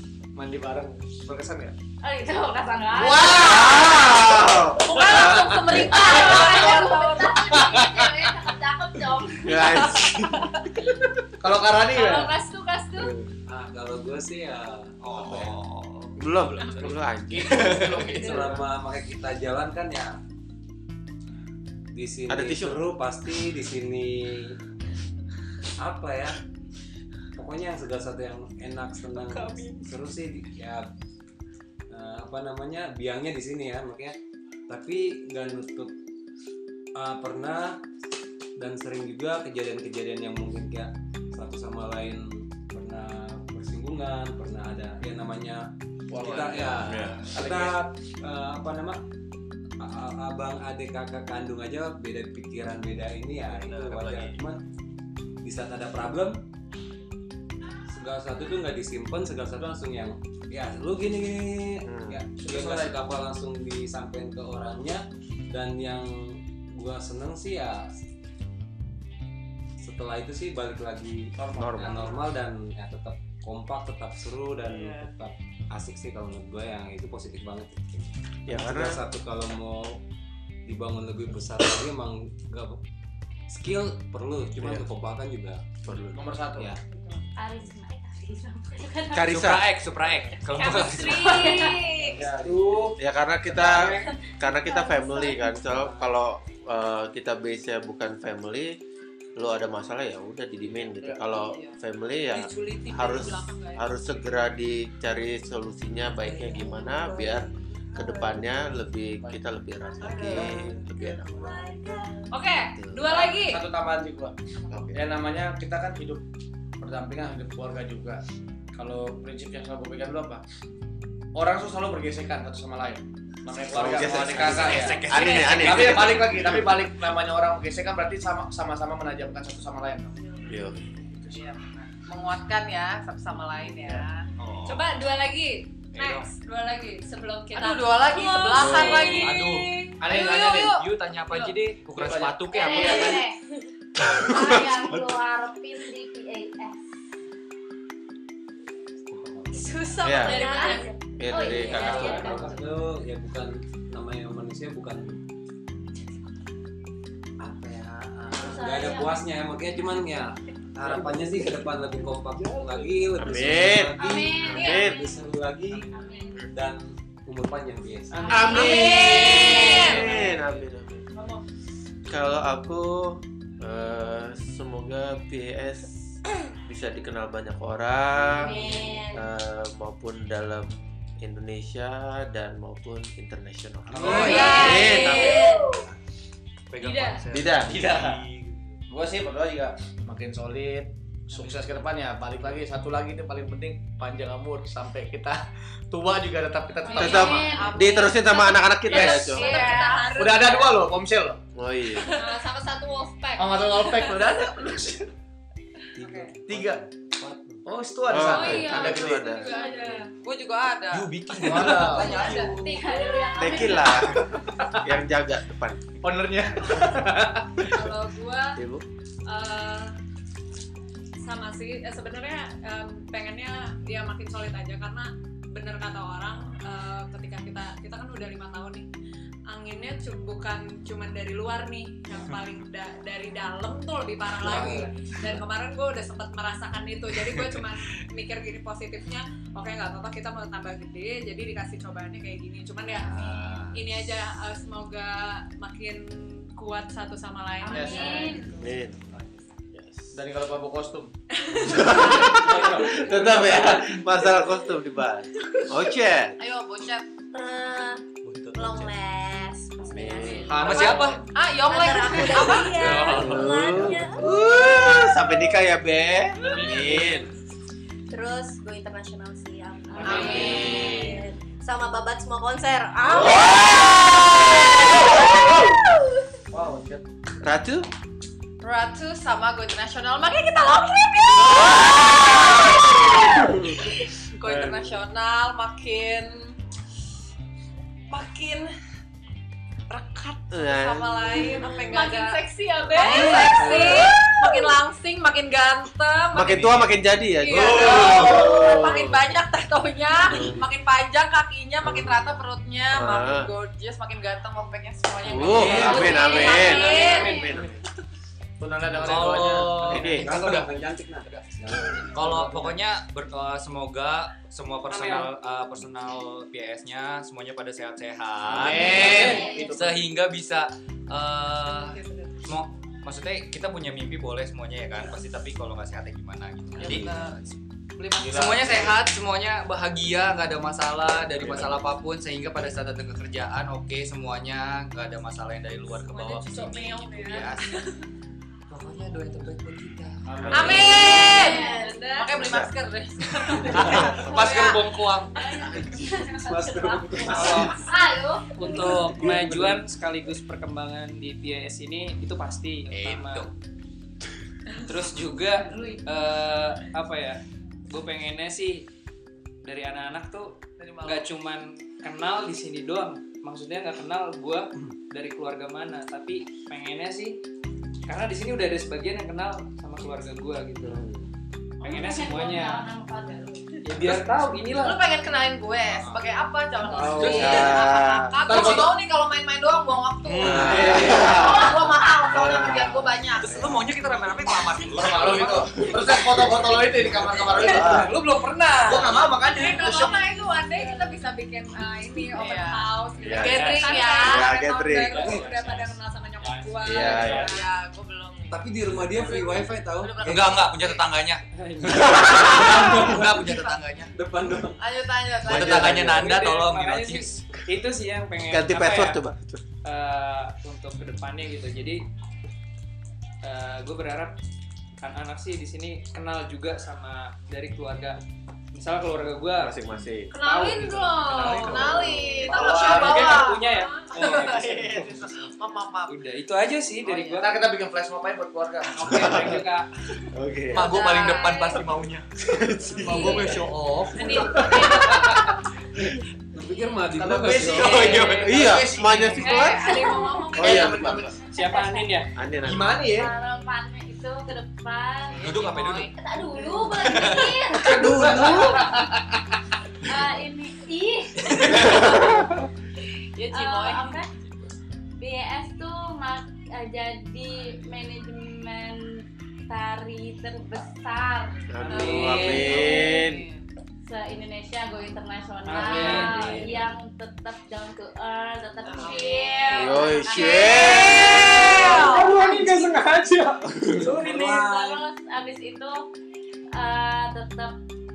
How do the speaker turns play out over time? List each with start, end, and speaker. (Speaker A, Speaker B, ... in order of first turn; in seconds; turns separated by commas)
Speaker A: 0.3-1.7, Speaker B: 2.0-3.9, Speaker A: 2.9-4.2, Speaker C: 3.4-6.0, Speaker D: 4.8-7.8, Speaker B: 5.2-9.9, Speaker E: 5.2-7.1, Speaker A: 6.2-6.7, Speaker A: 7.5-8.3, Speaker C: 9.4-10.9, Speaker A: 11.4-12.3, Speaker B: 11.9-13.1, Speaker E: 12.1-12.7, Speaker C: 13.0-13.3, Speaker F: 13.5-15.4, Speaker G: 15.0-16.2, Speaker C: 16.2-17.9, Speaker A: 17.3-18.7, Speaker F: 17.6-20.2, Speaker F: 21.9-24.6, Speaker C: 22.3-22.9, Speaker F: 25.8-26.4, Speaker F: 27.4-30.8, Speaker F: 31.9-34.2, Speaker F: 34.7-35.9, Speaker F: 36.9-37.8, Speaker F: 38.6-49.0, Speaker A: 46.1-47.8, Speaker C: 46.7-47.3, Speaker F: 49.8-54.6, Speaker G: 53.5-54.4, Speaker F: 55.4-56.4, Speaker F: 57.9-67.9, Speaker C: 61.8-62.2, Speaker A: 62.4-63.1, Speaker F: 69.8-80.0, Speaker A: 71.4-71.9, Speaker C: 71.6-71.9, Speaker D: 74.7-75.1, Speaker C: 78.5-79.0, Speaker F: 80.7-82.8, Speaker F: 83.5-85.6, Speaker C: 84.5-84.8, Speaker C: 85.8-86.2, Speaker A: 86.1-86.7, Speaker B: 87.3-89.4, Speaker C: 89.1-89.7, Speaker G: 89.2-91.5, Speaker E: 90.5-91.9, Speaker B: 90.6-92.1, Speaker D: 91.1-92.2, Speaker A: 92.1-92.8, Speaker F: 92.2-93.0, Speaker C: 93.0-98.8, Speaker F: 93.5-94.0, Speaker B: 94.4-95.7, Speaker C: 99.3-111.6, Speaker A: 100.9-101.3, Speaker D: 101.3-101.8, Speaker E: 102.3-103.9, Speaker B: 106.2-108.0, Speaker A: 110.0-110.8, Speaker D: 110.0-110.5, Speaker B: 111.4-111.9, Speaker E: 112.3-113.6, Speaker C: 112.6-113.3, Speaker A: 113.1-114.3, Speaker C: 114.7-115.1, Speaker A: 114.9-116.2, Speaker A: 116.8-118.2, Speaker A: 118.7-120.4, Speaker A: 121.3-130.1, Speaker C: 123.7-126.8, Speaker G: 124.1-126.5, Speaker C: 130.4-130.8, Speaker A: 131.1-131.4, Speaker D: 131.3-134.2, Speaker G: 134.4-134.9, Speaker E: 134.7-138.9, Speaker G: 135.9-136.3, Speaker D: 137.5-141.5, Speaker C: 138.5-139.3, Speaker G: 139.1-139.8, Speaker A: 140.0-140.8, Speaker G: 140.7-143.1, Speaker A: 141.9-143.2, Speaker B: 142.5-143.3, Speaker D: 142.8-143.1, Speaker C: 144.0-145.0, Speaker B: 144.2-146.8, Speaker F: 149.1-150.0, Speaker E: 149.9-150.9, Speaker C: 150.0-150.4, Speaker B: 150.0-152.7, Speaker H: 150.3-151.0, Speaker C: 151.2-152.5, Speaker F: 151.5-155.2, Speaker F: 157.4-165.9, Speaker B: 158.3-159.3, Speaker C: 163.2-165.0, Speaker B: 163.9-165.3, Speaker B: 165.9-166.5, Speaker F: 166.5-168.6, Speaker I: 168.1-168.7, Speaker B: 168.1-170.2, Speaker C: 168.3-171.0, Speaker D: 168.6-170.1, Speaker F: 169.9-170.5, Speaker D: 171.1-171.4, Speaker C: 172.1-175.9, Speaker C: 176.6-178.6, Speaker B: 178.4-179.1, Speaker H: 178.4-179.2, Speaker C: 179.1-185.5, Speaker G: 183.9-184.7, Speaker E: 184.0-185.5, Speaker B: 184.0-185.6, Speaker D: 184.2-185.4, Speaker G: 186.7-188.8, Speaker E: 186.8-187.2, Speaker C: 187.3-187.8, Speaker A: 187.6-188.2, Speaker A: 188.9-197.6, Speaker B: 196.8-200.1, Speaker C: 196.9-199.5, Speaker D: 197.4-198.3, Speaker E: 198.9-200.8, Speaker D: 199.0-200.7, Speaker A: 200.2-201.4, Speaker C: 201.5-202.2, Speaker E: 202.1-204.1, Speaker A: 203.4-205.1, Speaker F: 205.9-207.6, Speaker A: 206.5-206.8, Speaker A: 207.6-209.2, Speaker C: 208.1-209.8, Speaker E: 208.3-210.0, Speaker B: 208.3-210.1, Speaker D: 210.2-213.3, Speaker G: 210.9-212.1, Speaker A: 211.4-212.3, Speaker E: 211.9-213.2, Speaker F: 212.0-212.5, Speaker B: 212.2-214.0, Speaker C: 213.3-214.2, Speaker A: 214.4-214.7, Speaker C: 214.8-215.8, Speaker A: 216.0-217.5, Speaker E: 216.7-217.0, Speaker E: 217.6-218.6, Speaker C: 218.6-218.8, Speaker E: 219.2-219.9, Speaker E: 221.2-228.9, Speaker E: 229.5-248.5, Speaker F: 234.4-234.9, Speaker F: 243.3-243.7, Speaker B: 247.6-248.5, Speaker A: 247.7-248.3, Speaker C: 248.5-249.0, Speaker C: 249.7-250.1, Speaker A: 250.1-251.1, Speaker E: 251.4-252.7, Speaker C: 251.6-256.3, Speaker A: 252.3-253.8, Speaker D: 256.4-257.1, Speaker H: 257.3-258.0, Speaker G: 258.2-258.9, Speaker H: 258.5-260.9, Speaker C: 259.9-260.6, Speaker D: 260.2-263.3, Speaker A: 260.5-261.1, Speaker G: 260.5-261.2, Speaker H: 261.6-264.3, Speaker G: 262.7-263.5, Speaker B: 263.1-264.3, Speaker C: 263.2-267.3, Speaker H: 268.1-275.8, Speaker B: 270.0-270.9, Speaker D: 270.0-271.0, Speaker C: 270.0-271.2, Speaker E: 270.0-270.6, Speaker A: 273.1-273.5, Speaker C: 273.2-273.9, Speaker A: 276.5-277.0, Speaker C: 277.4-277.9, Speaker D: 278.6-286.5, Speaker D: 288.1-288.7, Speaker D: 289.9-296.6, Speaker C: 290.5-291.6, Speaker E: 291.6-294.6, Speaker C: 296.3-299.2, Speaker G: 296.6-296.8, Speaker D: 297.4-307.4, Speaker E: 297.6-298.0, Speaker C: 300.2-300.6, Speaker C: 301.8-302.2, Speaker C: 302.9-303.5, Speaker C: 305.2-307.8, Speaker F: 305.5-306.2, Speaker G: 305.5-306.1, Speaker B: 305.9-307.5, Speaker H: 306.4-307.3, Speaker A: 308.6-309.9, Speaker G: 308.9-311.5, Speaker F: 309.8-312.8, Speaker C: 309.8-310.3, Speaker G: 312.1-327.2, Speaker I: 314.9-315.3, Speaker A: 318.5-320.0, Speaker B: 318.9-319.8, Speaker F: 319.0-319.5, Speaker E: 321.9-322.2, Speaker A: 326.8-327.1, Speaker D: 326.9-327.4, Speaker D: 328.0-328.4, Speaker A: 328.1-329.0, Speaker G: 328.2-337.7, Speaker E: 336.1-337.8, Speaker G: 338.7-341.0, Speaker A: 340.3-341.0, Speaker C: 340.4-340.9, Speaker D: 340.5-345.0, Speaker E: 340.6-342.3, Speaker F: 340.6-341.1, Speaker B: 341.1-342.1, Speaker C: 342.4-342.7, Speaker G: 343.5-345.3, Speaker F: 343.7-344.2, Speaker I: 344.4-344.7, Speaker B: 345.4-349.0, Speaker F: 345.7-347.8, Speaker I: 347.3-347.8, Speaker I: 348.5-353.5, Speaker F: 348.7-349.8, Speaker G: 352.9-353.5, Speaker I: 354.8-358.8, Speaker B: 355.6-356.0, Speaker I: 359.6-367.4, Speaker D: 360.8-361.3, Speaker I: 368.1-371.1, Speaker C: 370.8-371.3, Speaker I: 371.8-372.8, Speaker B: 371.8-373.8, Speaker I: 373.8-375.0, Speaker D: 374.7-383.5, Speaker I: 376.9-377.5, Speaker A: 377.0-377.4, Speaker G: 377.0-377.8, Speaker F: 377.1-377.4, Speaker C: 377.4-378.7, Speaker A: 378.4-379.0, Speaker C: 380.4-383.8, Speaker G: 380.4-381.1, Speaker F: 380.6-381.2, Speaker G: 383.4-386.7, Speaker A: 384.9-388.1, Speaker C: 387.5-388.1, Speaker I: 387.6-389.0, Speaker D: 387.6-390.1, Speaker A: 388.8-390.2, Speaker E: 389.4-397.6, Speaker D: 390.8-391.1, Speaker D: 392.3-394.6, Speaker C: 393.2-393.7, Speaker I: 393.5-394.2, Speaker C: 394.2-395.3, Speaker I: 395.1-397.4, Speaker F: 395.2-395.5, Speaker C: 396.8-397.5, Speaker D: 397.1-401.0, Speaker F: 398.5-400.7, Speaker G: 400.2-404.1, Speaker I: 401.5-402.4, Speaker F: 401.8-404.8, Speaker C: 402.1-403.1, Speaker D: 404.8-406.0, Speaker C: 405.4-406.4, Speaker G: 405.5-407.4, Speaker I: 406.1-409.2, Speaker C: 408.5-409.6, Speaker I: 409.8-412.0, Speaker I: 413.4-414.3, Speaker I: 415.0-418.2, Speaker I: 418.7-419.8, Speaker C: 419.6-420.3, Speaker E: 420.3-421.8, Speaker D: 420.4-420.7, Speaker I: 420.4-421.9, Speaker D: 421.3-426.1, Speaker G: 421.4-422.1, Speaker C: 421.8-422.4, Speaker A: 422.4-423.5, Speaker E: 422.5-424.4, Speaker I: 422.8-425.0, Speaker I: 426.1-427.5, Speaker D: 427.0-427.4, Speaker A: 427.4-429.5, Speaker I: 429.0-429.9, Speaker C: 429.0-429.7, Speaker C: 430.3-430.9, Speaker G: 430.7-432.3, Speaker D: 430.8-431.7, Speaker E: 430.9-431.8, Speaker C: 432.5-433.7, Speaker E: 432.9-433.4, Speaker G: 433.0-434.5, Speaker E: 434.1-435.1, Speaker C: 434.3-434.8, Speaker B: 434.7-435.0, Speaker F: 436.5-438.4, Speaker A: 437.1-439.5, Speaker G: 437.6-438.6, Speaker I: 438.0-438.7, Speaker C: 438.4-439.9, Speaker E: 439.4-441.0, Speaker B: 439.6-440.4, Speaker C: 440.6-441.3, Speaker A: 440.6-441.4, Speaker B: 441.5-442.3, Speaker I: 441.5-442.3, Speaker C: 442.3-443.1, Speaker A: 442.6-443.3, Speaker B: 443.0-448.3, Speaker G: 445.4-446.1, Speaker D: 445.5-446.1, Speaker G: 446.7-447.7, Speaker I: 447.8-449.0, Speaker C: 447.8-448.8, Speaker F: 447.9-448.7, Speaker B: 450.1-451.9, Speaker G: 451.5-451.9, Speaker D: 453.4-454.2, Speaker B: 453.5-454.3, Speaker B: 455.2-461.6, Speaker C: 461.7-463.4, Speaker I: 461.8-462.9, Speaker D: 461.9-463.6, Speaker B: 464.1-472.8, Speaker I: 465.6-466.9, Speaker F: 466.0-466.4, Speaker D: 468.9-472.3, Speaker C: 469.7-471.9, Speaker I: 471.8-474.7, Speaker F: 471.8-475.0, Speaker B: 474.2-476.0, Speaker B: 476.7-477.7